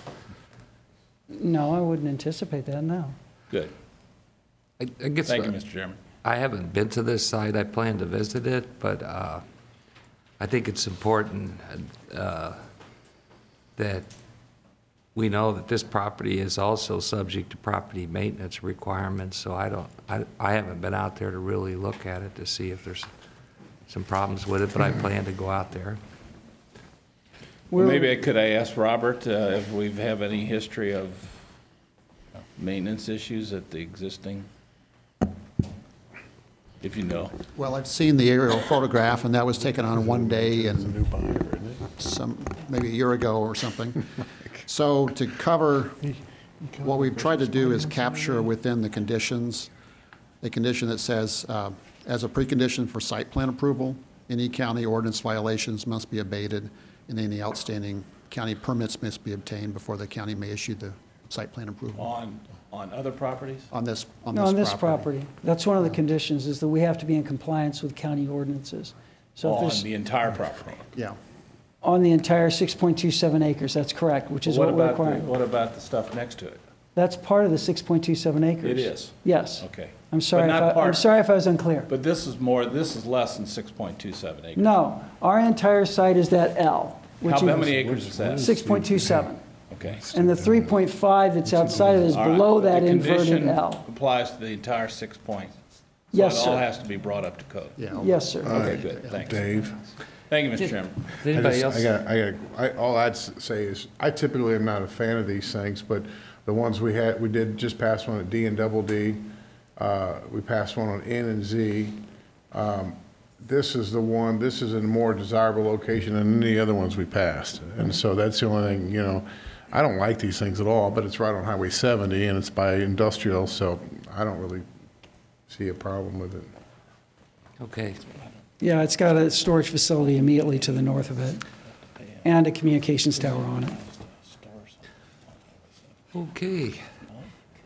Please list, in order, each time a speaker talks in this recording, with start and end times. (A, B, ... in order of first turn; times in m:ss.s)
0:01.3-0:03.2 A
0:04.8-0:05.5 B
0:05.2-0:06.0 C
0:06.2-0:09.4 B
0:10.4-0:12.6 B
0:13.8-0:14.1 B
0:15.2-0:23.1 B
0:23.9-0:26.0 B
0:27.7-0:28.1 A
0:27.8-0:31.4 C
0:32.6-0:34.5 C
0:36.8-0:37.3 C
0:37.6-0:41.0 D
0:39.6-0:41.9 E
0:42.0-0:44.1 D
0:44.6-0:46.0 D
0:46.8-0:49.7 D
0:50.4-1:02.1 D
1:02.0-1:03.7 C
1:03.7-1:05.1 D
1:04.3-1:09.9 A
1:09.4-1:10.9 C
1:11.8-1:15.3 A
1:14.4-1:16.6 C
1:17.0-1:21.9 A
1:18.6-1:21.1 C
1:21.9-1:24.7 C
1:24.6-1:27.8 A
1:27.2-1:28.6 C
1:27.7-1:29.2 E
1:28.4-1:29.4 A
1:29.7-1:30.1 C
1:30.0-1:30.8 E
1:30.1-1:33.8 A
1:31.5-1:31.9 E
1:32.1-1:35.5 C
1:36.1-1:37.8 C
1:36.1-1:36.7 A
1:37.8-1:39.4 D
1:37.9-1:38.8 A
1:38.4-1:39.8 E
1:38.5-1:39.6 C
1:40.3-1:41.1 C
1:41.2-1:41.9 B
1:41.3-2:04.6 E
2:05.5-2:06.5 E
2:07.6-2:08.0 B
2:08.6-2:11.4 A
2:12.2-2:13.8 A
2:14.3-2:14.7 C
2:16.1-2:16.8 B